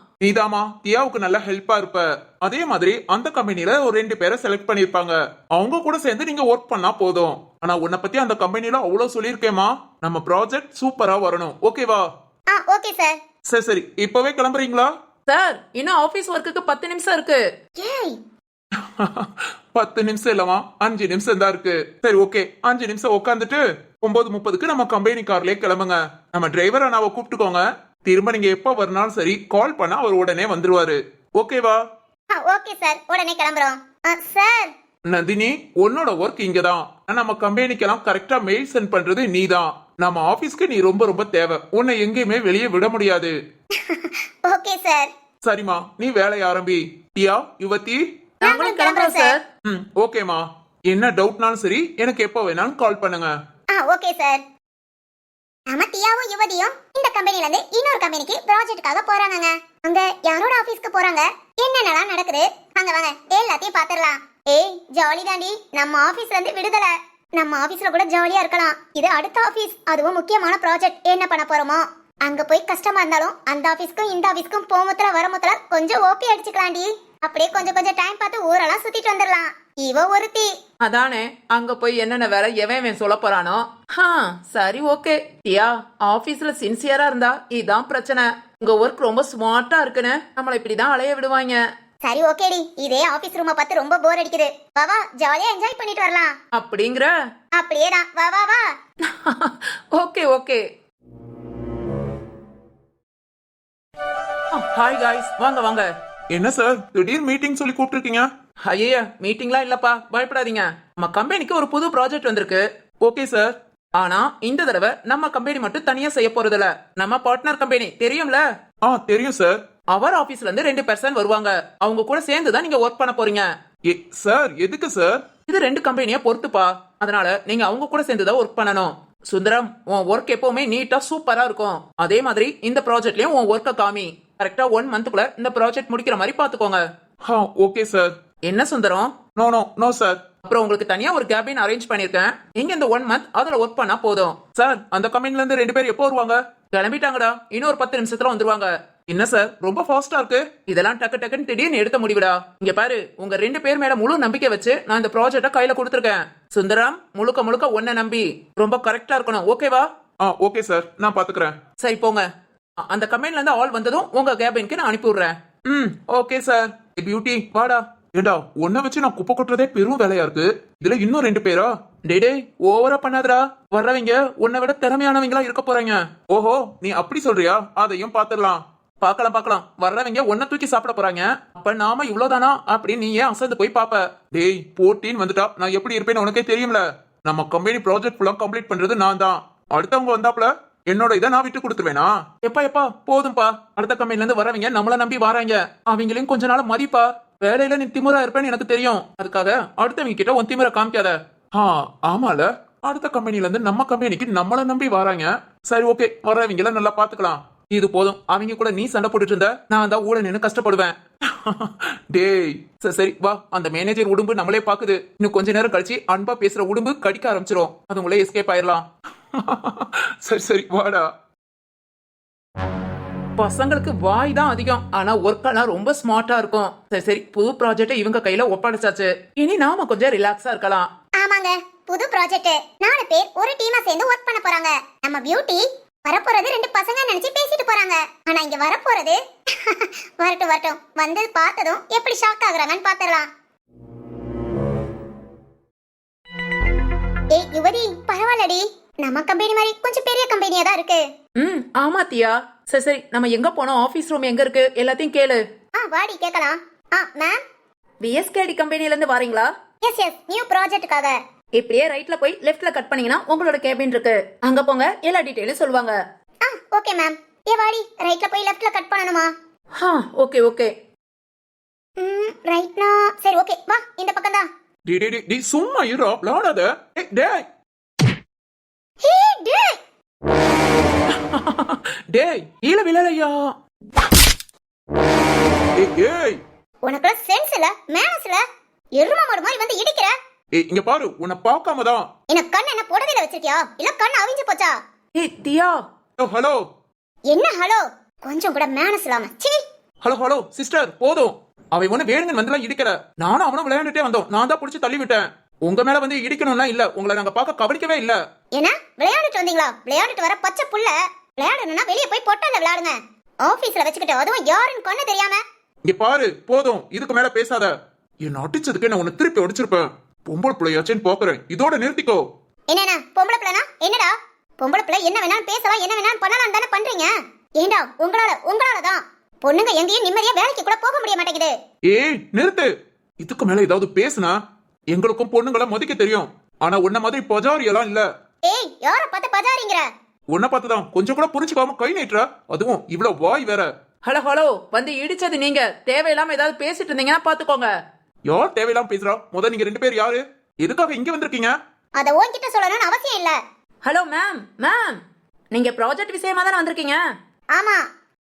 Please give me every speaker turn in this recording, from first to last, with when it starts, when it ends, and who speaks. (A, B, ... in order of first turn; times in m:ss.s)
0:00.2-0:12.1 A
0:12.5-0:13.2 B
0:13.5-0:14.9 A
0:15.3-0:17.4 C
0:17.8-0:18.2 B
0:18.7-0:31.8 A
0:32.3-0:34.7 B
0:35.1-0:43.3 A
0:43.7-0:45.1 B
0:45.4-0:48.0 A
0:48.4-0:49.4 C
0:48.4-0:49.3 B
0:49.6-0:53.3 A
0:53.7-0:54.4 B
0:55.7-1:20.5 B
1:20.8-1:31.6 C
1:32.0-1:36.4 B
1:36.5-1:37.1 C
1:37.5-1:38.7 B
1:39.0-1:40.6 C
1:44.5-1:45.9 C
1:46.3-1:48.3 A
1:48.6-1:52.6 C
1:53.0-1:53.5 A
1:54.0-1:58.4 C
1:58.8-1:59.6 A
1:59.9-2:03.5 C
2:03.8-2:05.2 A
2:05.5-2:16.8 C
2:17.2-2:18.1 A
2:18.5-2:19.2 C
2:19.3-2:20.2 A
2:20.4-2:24.6 C
2:24.6-2:26.4 A
2:26.7-2:39.9 C
2:29.3-2:30.4 A
2:40.2-2:41.6 A
2:41.8-2:42.2 C
2:42.8-2:45.8 C
2:45.8-3:19.5 A
2:54.5-2:55.8 C
3:12.9-3:13.2 C
3:19.1-3:21.1 C
3:21.6-3:38.8 A
3:30.1-3:30.5 C
3:36.2-3:36.5 C
3:39.3-3:41.1 A
3:43.4-3:50.9 C
3:51.2-4:03.3 B
4:07.3-4:11.0 B
4:11.4-4:15.4 C
4:15.7-4:17.4 B
4:18.0-4:19.5 C
4:19.8-4:21.2 B
4:21.6-4:26.0 C
4:26.4-4:29.3 B
4:29.8-4:30.7 C
4:32.0-4:34.5 B
4:34.9-4:37.4 A
4:39.0-4:39.8 B
4:41.1-4:43.4 A
4:45.8-4:46.4 A
4:46.8-4:48.4 B
4:49.0-4:50.1 B
4:50.5-4:52.1 A
4:52.3-4:54.8 B
4:55.2-4:55.8 C
4:56.2-4:56.6 A
4:57.3-4:59.6 B
5:00.0-5:08.2 A
5:08.5-5:15.4 B
5:15.8-5:22.2 A
5:22.7-5:31.5 B
5:31.9-5:32.7 A
5:33.2-5:34.4 A
5:34.9-5:38.0 A
5:38.4-5:39.8 B
5:40.3-5:43.7 A
5:44.0-5:47.7 C
5:48.2-5:51.5 A
5:52.0-5:53.4 B
5:53.8-5:55.0 C
5:55.5-5:57.0 C
5:57.5-5:57.9 B